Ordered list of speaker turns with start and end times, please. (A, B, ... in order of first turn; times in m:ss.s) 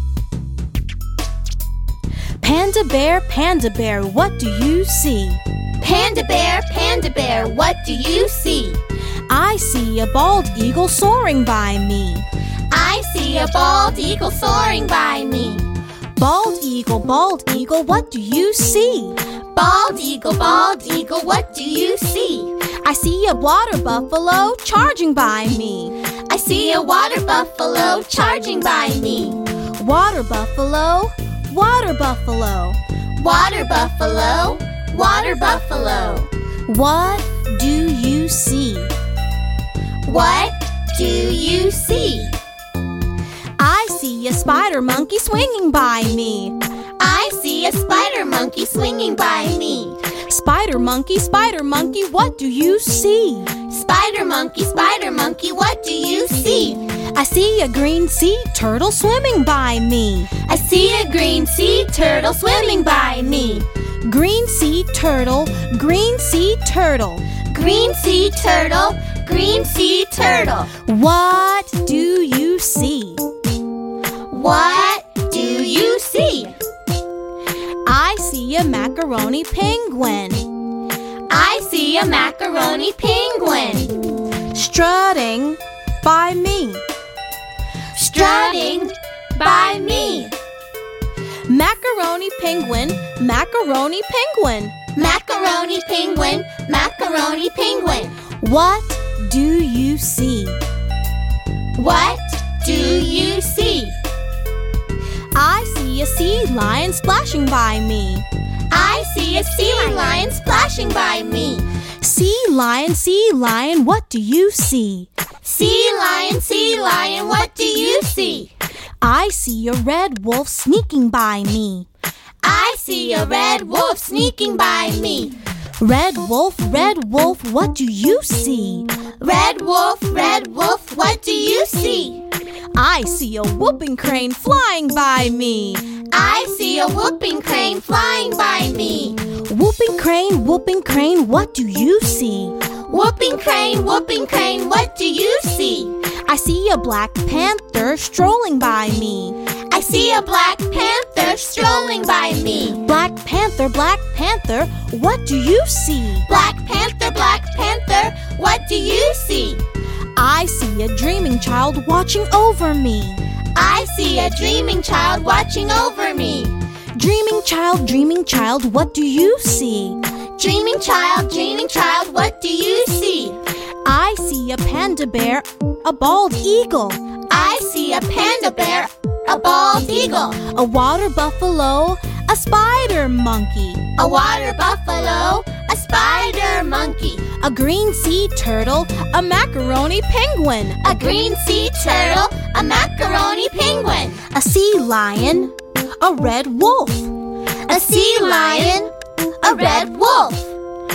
0:02.4-0:05.4 A
0:05.8-0:08.8 B
0:09.3-0:12.2 A
0:12.7-0:15.7 B
0:16.2-0:19.2 A
0:19.5-0:22.5 B
0:22.8-0:25.9 A
0:26.2-0:29.4 B
0:29.8-0:32.8 A
0:33.2-0:36.3 B
0:36.7-0:38.9 A
0:40.0-0:42.4 B
0:43.6-0:46.6 A
0:47.0-0:50.0 B
0:50.3-0:53.5 A
0:53.6-0:56.9 B
0:57.1-1:00.3 A
1:00.4-1:03.7 B
1:04.0-1:07.3 A
1:07.4-1:10.7 B
1:10.8-1:13.3 A
1:14.3-1:16.6 B
1:17.8-1:20.5 A
1:21.3-1:24.0 B
1:24.5-1:26.8 A
1:27.9-1:30.3 B
1:31.5-1:34.8 A
1:34.9-1:38.2 B
1:38.4-1:40.6 A
1:41.8-1:44.0 B
1:45.4-1:48.2 A
1:48.7-1:51.7 B
1:52.0-1:55.1 A
1:55.4-1:58.5 B
1:59.0-2:01.9 A
2:02.4-2:05.4 B
2:05.8-2:09.0 A
2:09.2-2:12.2 B
2:12.8-2:16.0 A
2:16.1-2:19.3 B
2:19.4-2:22.5 A
2:22.8-2:25.9 B
2:26.2-2:29.4 A
2:29.7-2:32.9 B
2:32.8-2:36.2 A
2:36.2-2:39.6 B
2:40.2-2:43.2 A
2:43.5-2:46.6 B
2:47.0-2:50.0 A
2:50.4-2:53.4 B
2:53.8-2:57.0 A
2:57.3-3:00.4 B
3:00.4-3:03.8 A
3:04.0-3:07.3 B
3:07.4-3:11.0 A
3:10.8-3:14.2 B
3:14.3-3:17.1 A
3:17.7-3:20.5 B